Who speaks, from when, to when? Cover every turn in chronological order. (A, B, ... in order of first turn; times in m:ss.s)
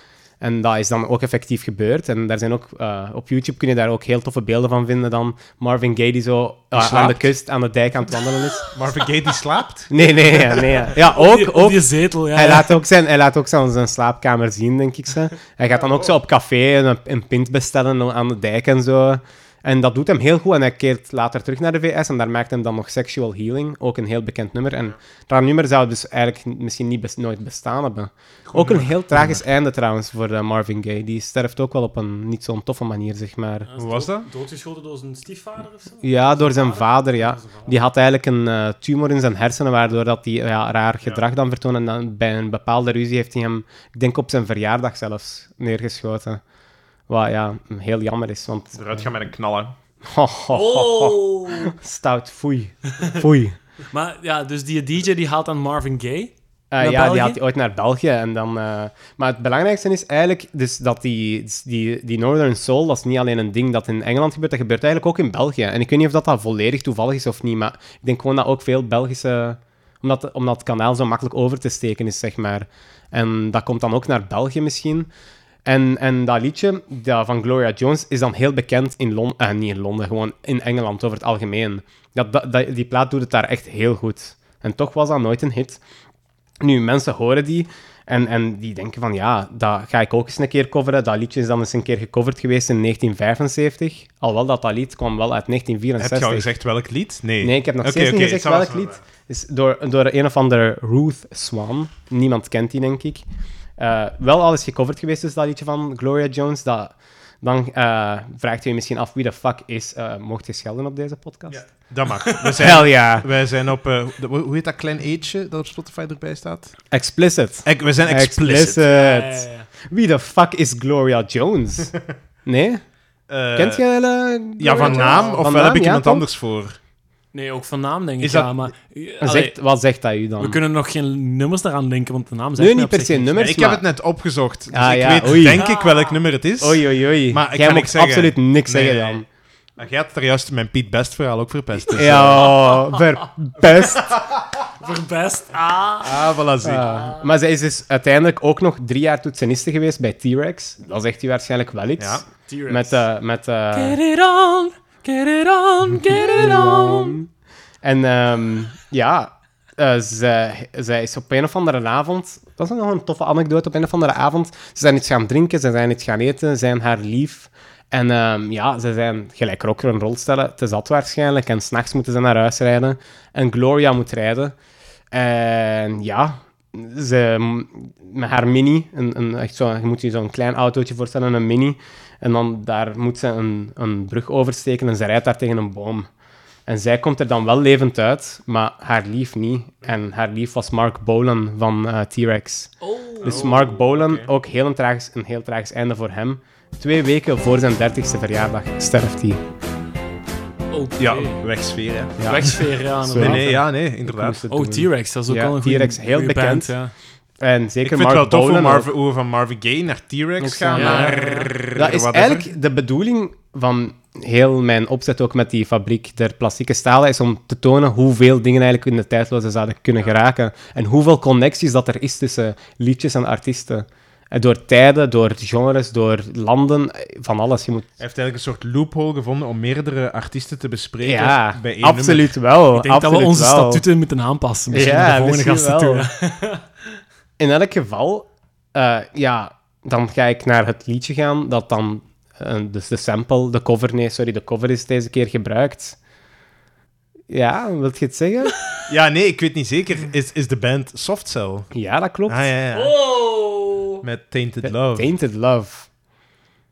0:00.4-0:08.7 A
0:06.7-0:07.2 B
0:08.7-0:10.6 B
0:09.9-0:33.7 A
0:11.0-0:12.8 C
0:28.5-0:29.4 B
0:33.7-0:37.7 C
0:33.8-0:34.3 B
0:36.0-0:46.4 A
0:47.1-0:49.1 A
0:48.7-0:49.7 B
0:50.0-0:53.6 A
0:50.5-0:51.7 C
0:53.9-0:57.4 C
0:56.7-1:15.1 A
1:15.6-1:25.8 A
1:26.6-1:36.5 A
1:36.0-1:39.0 B
1:37.4-1:43.2 A
1:43.8-1:51.9 A
1:51.5-1:56.8 B
1:52.5-1:53.3 A
1:56.9-2:02.9 A
1:57.6-1:58.8 B
1:58.8-1:59.7 C
2:03.3-2:03.8 B
2:03.5-2:06.2 A
2:04.6-2:06.8 B
2:04.7-2:05.4 C
2:07.3-2:09.5 C
2:08.2-2:08.7 B
2:09.2-2:10.6 A
2:10.4-2:13.5 C
2:12.6-2:13.8 A
2:13.4-2:19.2 B
2:14.7-2:15.6 A
2:15.5-2:16.2 C
2:16.6-2:19.2 A
2:19.8-2:22.5 B
2:21.9-2:24.2 A
2:22.4-2:23.1 C
2:24.6-2:27.2 C
2:26.0-2:26.9 B
2:26.6-2:34.0 A
2:32.0-2:32.2 B
2:32.5-2:33.0 C
2:33.7-2:37.2 C
2:36.0-2:37.3 A
2:37.8-2:54.5 A
2:55.1-3:06.1 A
3:06.7-3:19.4 A
3:12.8-3:13.5 C
3:13.2-3:14.3 B
3:20.7-3:21.4 C
3:21.0-3:24.4 B
3:22.2-3:26.7 A
3:22.2-3:23.7 C
3:24.5-3:26.9 C
3:27.4-3:28.9 A
3:27.8-3:32.5 B
3:30.4-3:31.2 A
3:30.7-3:31.5 C
3:31.7-3:47.9 A
3:48.0-3:52.3 B
3:51.0-3:53.8 A
3:52.7-3:56.6 C
3:54.7-3:56.0 A
3:57.4-4:06.0 A
4:07.3-4:08.5 A
4:08.9-4:11.7 B
4:11.7-4:12.4 A
4:12.3-4:12.9 B
4:12.7-4:14.0 C
4:14.0-4:15.1 B
4:14.6-4:15.9 A